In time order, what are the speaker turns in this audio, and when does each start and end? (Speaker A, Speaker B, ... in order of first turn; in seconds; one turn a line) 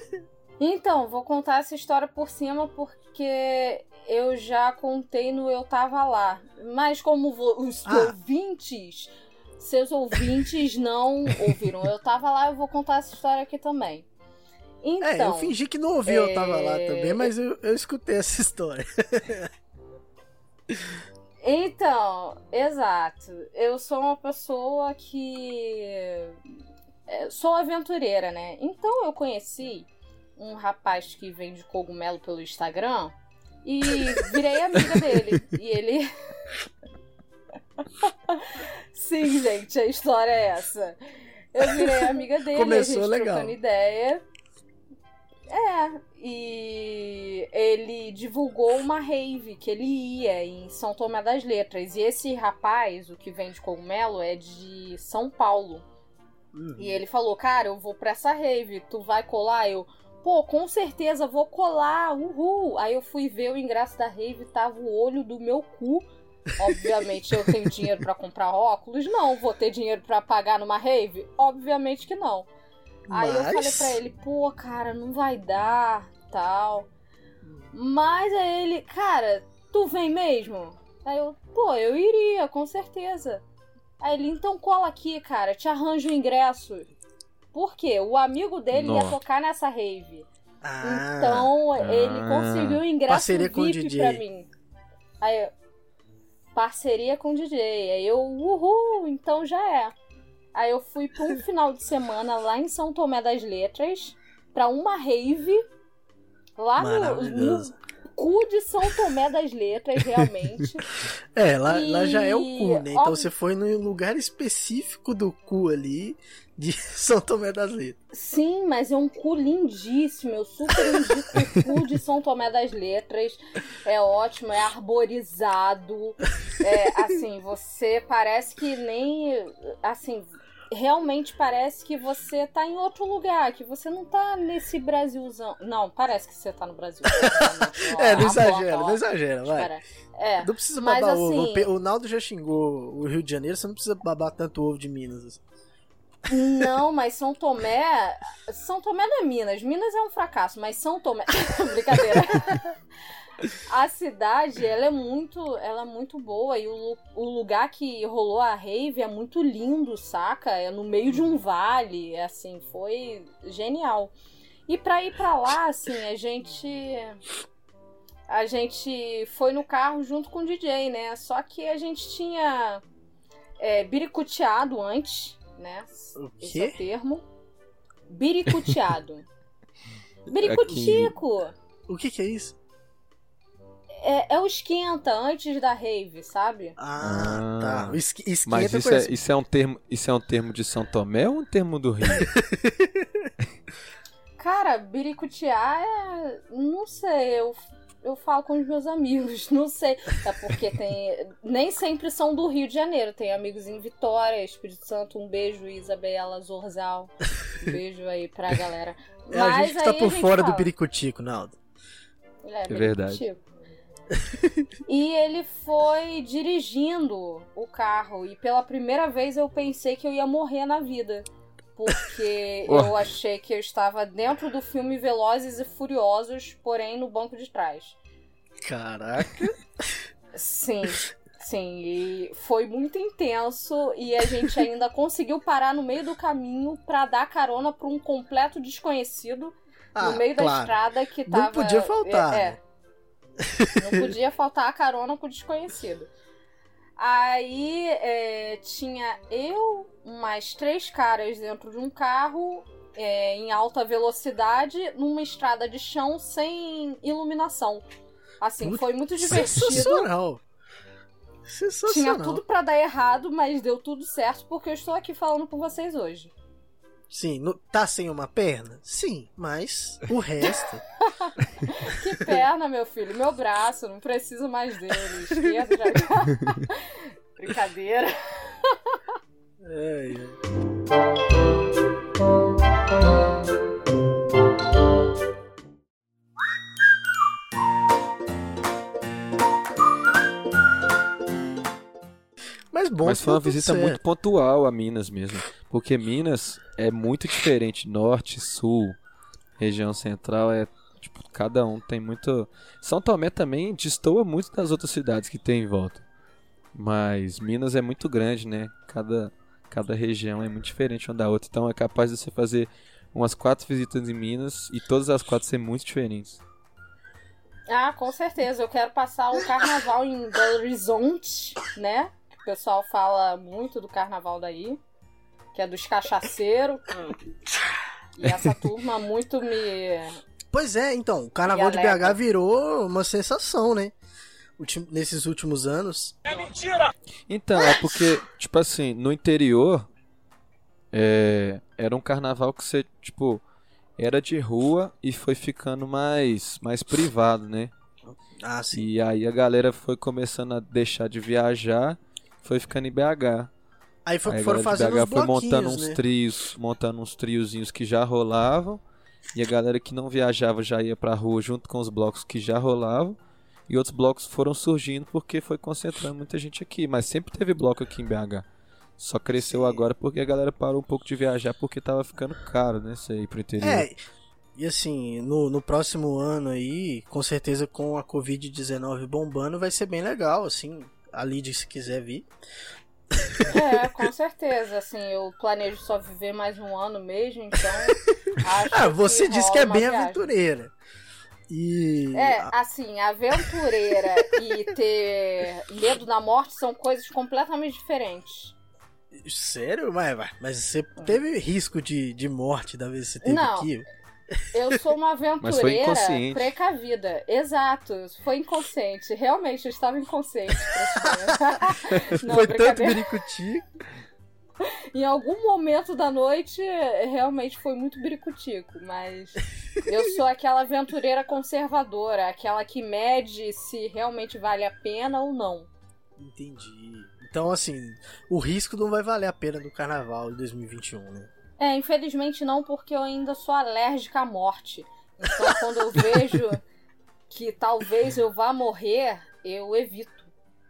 Speaker A: 0.6-14.1
Speaker B: 7.8-8.1
Speaker A: 14.8-15.5
Speaker B: 15.0-19.5
Speaker A: 16.1-17.3
Speaker A: 21.4-26.4
Speaker A: 27.1-36.1
Speaker A: 38.0-41.0
Speaker A: 41.5-44.2
Speaker B: 41.6-43.5
Speaker A: 45.5-55.9
Speaker B: 56.5-57.0
Speaker A: 56.8-72.5
Speaker B: 73.1-74.0
Speaker A: 73.1-76.9
Speaker B: 77.4-77.7
Speaker A: 77.7-83.4
Speaker A: 84.0-86.9
Speaker A: 87.5-90.3
Speaker C: 88.7-89.2
Speaker B: 90.6-91.5
Speaker A: 90.8-94.5
Speaker C: 91.8-92.8
Speaker B: 93.1-94.2
Speaker A: 95.2-95.5
Speaker A: 96.5-99.9
Speaker A: 100.5-105.6
Speaker A: 106.6-110.8
Speaker B: 106.8-107.7
Speaker B: 111.3-118.0
Speaker A: 111.7-113.3
Speaker A: 118.1-141.7
Speaker B: 137.1-139.7
Speaker B: 140.4-145.4
Speaker A: 146.3-152.7
Speaker A: 153.7-164.1
Speaker A: 164.7-167.2
Speaker A: 168.3-172.8
Speaker A: 173.6-177.2
Speaker B: 176.1-176.8
Speaker A: 178.1-179.2
Speaker A: 180.3-181.5
Speaker C: 180.4-181.1
Speaker B: 181.9-182.6
Speaker A: 184.0-186.8
Speaker B: 186.8-189.1
Speaker C: 187.0-192.3
Speaker B: 192.2-193.2
Speaker A: 194.4-210.7
Speaker B: 209.3-211.6
Speaker A: 212.4-213.4
Speaker C: 212.7-213.2
Speaker B: 214.2-214.7
Speaker A: 214.9-228.0
Speaker C: 222.7-222.9
Speaker B: 228.6-229.9
Speaker A: 230.3-242.6
Speaker B: 239.9-240.7
Speaker B: 241.3-242.6
Speaker B: 243.4-244.1
Speaker A: 243.8-246.1
Speaker A: 247.0-257.8
Speaker A: 258.4-260.1
Speaker B: 258.6-260.4
Speaker B: 261.4-262.4
Speaker A: 261.9-266.3
Speaker B: 267.1-270.8
Speaker A: 271.2-279.0
Speaker B: 279.6-280.4
Speaker B: 292.7-294.0
Speaker C: 293.0-299.0
Speaker C: 299.6-306.0
Speaker C: 306.7-316.4
Speaker A: 317.7-324.8
Speaker A: 325.5-326.8
Speaker A: 328.2-330.2
Speaker B: 330.5-333.9
Speaker A: 331.5-332.2
Speaker B: 334.6-336.2
Speaker C: 337.3-339.9
Speaker C: 340.9-343.4
Speaker C: 344.0-347.7
Speaker B: 348.0-348.9
Speaker C: 348.7-353.5
Speaker B: 354.1-356.0
Speaker C: 354.3-358.8
Speaker C: 359.3-363.2
Speaker C: 363.7-368.4
Speaker C: 369.0-373.9
Speaker B: 369.4-369.9
Speaker B: 373.6-374.0
Speaker B: 374.6-382.3
Speaker B: 383.1-384.0
Speaker A: 383.5-390.2
Speaker B: 388.7-390.7
Speaker B: 391.5-392.5
Speaker A: 392.1-398.6
Speaker B: 399.1-404.4
Speaker A: 403.2-403.7
Speaker A: 404.5-413.0
Speaker C: 405.4-406.5
Speaker B: 412.2-413.6
Speaker A: 414.9-425.7
Speaker B: 426.2-431.3
Speaker A: 431.6-436.6
Speaker A: 437.3-440.3